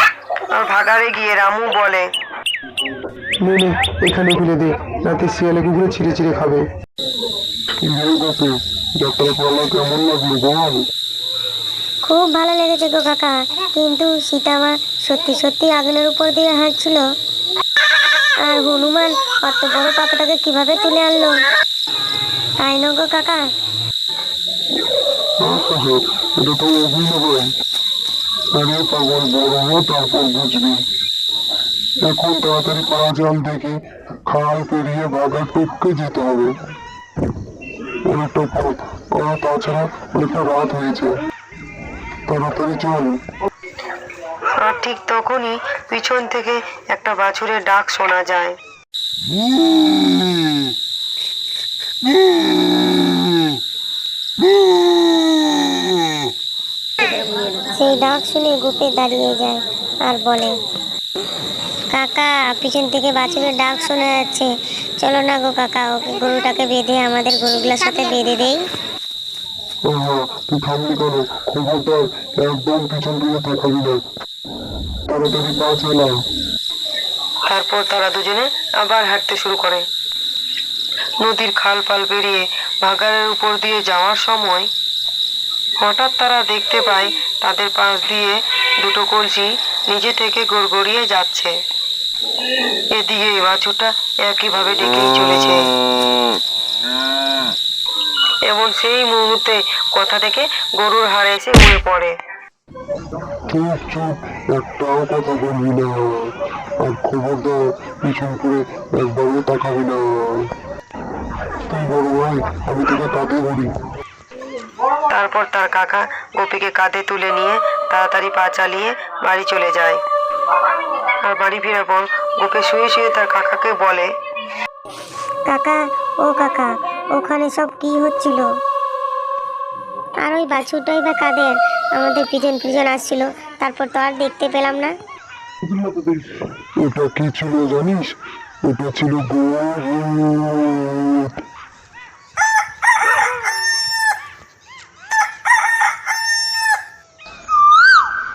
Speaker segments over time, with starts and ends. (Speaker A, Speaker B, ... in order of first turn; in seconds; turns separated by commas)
Speaker A: 0.5-2.1, Speaker B: 3.4-6.7, Speaker C: 7.8-10.9, Speaker D: 12.0-17.1, Speaker D: 18.4-21.4, Speaker D: 22.6-23.4, Speaker C: 25.4-27.5, Speaker C: 28.6-30.8, Speaker C: 32.0-36.5, Speaker C: 38.1-41.1, Speaker C: 42.3-43.2, Speaker A: 44.6-48.6, Speaker D: 57.6-60.5, Speaker D: 61.9-68.6, Speaker C: 69.9-74.0, Speaker C: 75.1-76.2, Speaker A: 77.5-79.8, Speaker A: 81.2-84.7, Speaker A: 85.8-91.5, Speaker A: 92.9-95.6, Speaker A: 98.5-102.2, Speaker C: 103.5-106.3, Speaker C: 106.8-110.5, Speaker C: 111.7-113.7, Speaker A: 115.1-120.0, Speaker A: 120.7-124.1, Speaker D: 125.5-128.5, Speaker D: 130.2-134.9, Speaker C: 135.7-136.2, Speaker C: 136.8-141.3